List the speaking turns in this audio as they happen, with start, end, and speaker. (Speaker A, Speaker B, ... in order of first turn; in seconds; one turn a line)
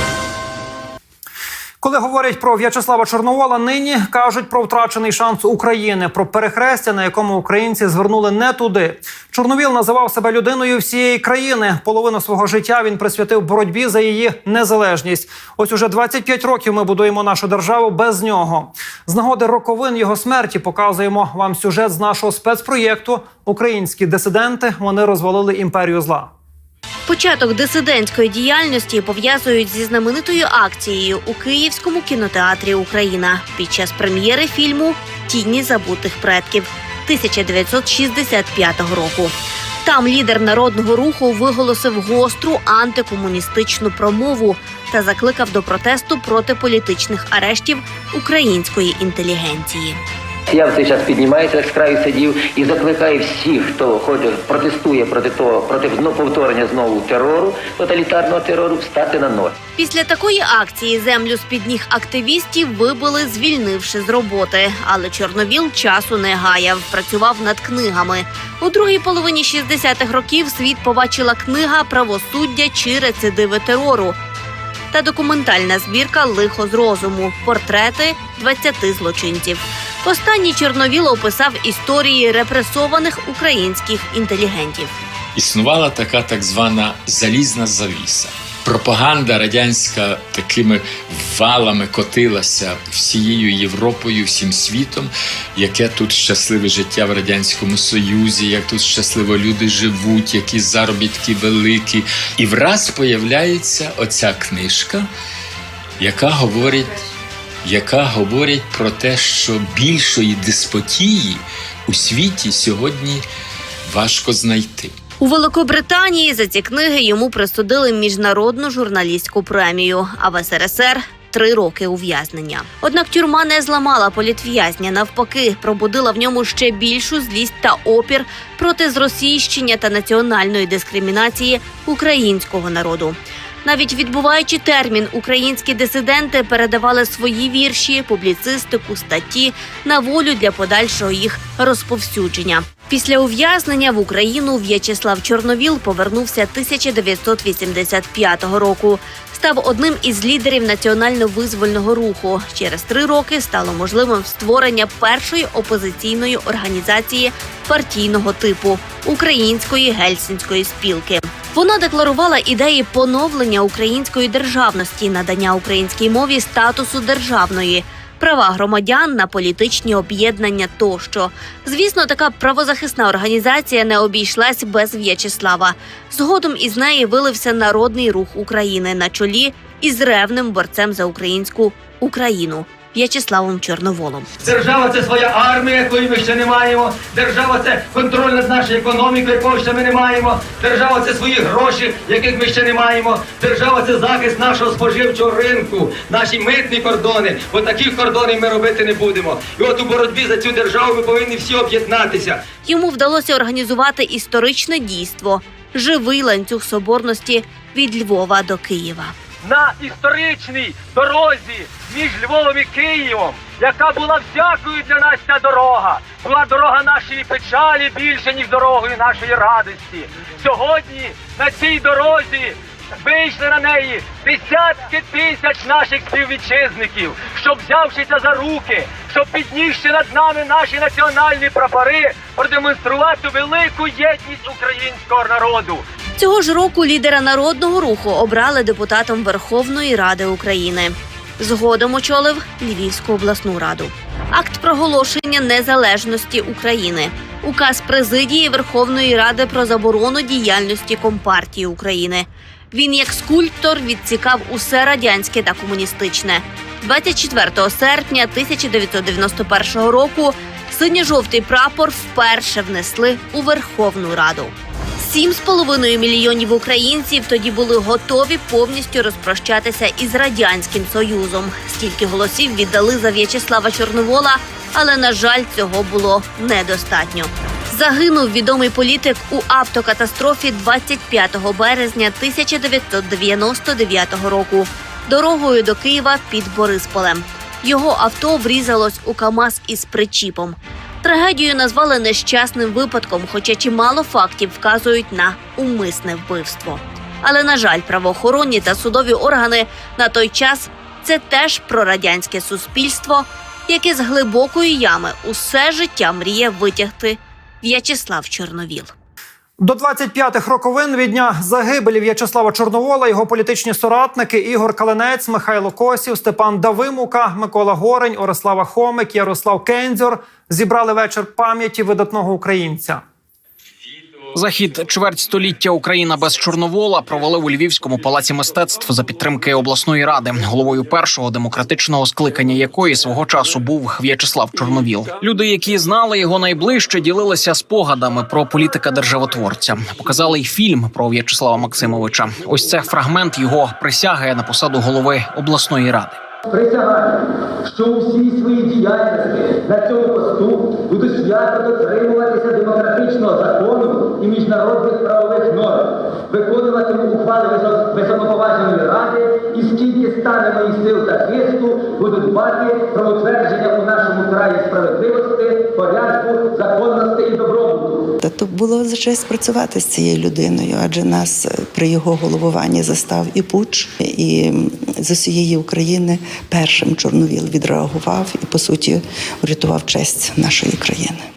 Speaker A: 1.8-26.3
Speaker B: 27.1-50.0
Speaker C: 50.5-59.6
Speaker B: 59.8-74.2
Speaker B: 74.9-84.9
Speaker D: 85.3-105.0
Speaker D: 106.0-107.0
Speaker D: 107.6-113.2
Speaker D: 113.8-114.9
Speaker B: 115.2-184.4
Speaker E: 184.5-202.4
Speaker B: 202.6-209.1
Speaker E: 209.4-235.8
Speaker B: 236.2-308.9
Speaker A: 309.6-323.0
Speaker F: 324.3-346.2
Speaker E: 346.5-368.1
Speaker G: 368.2-381.2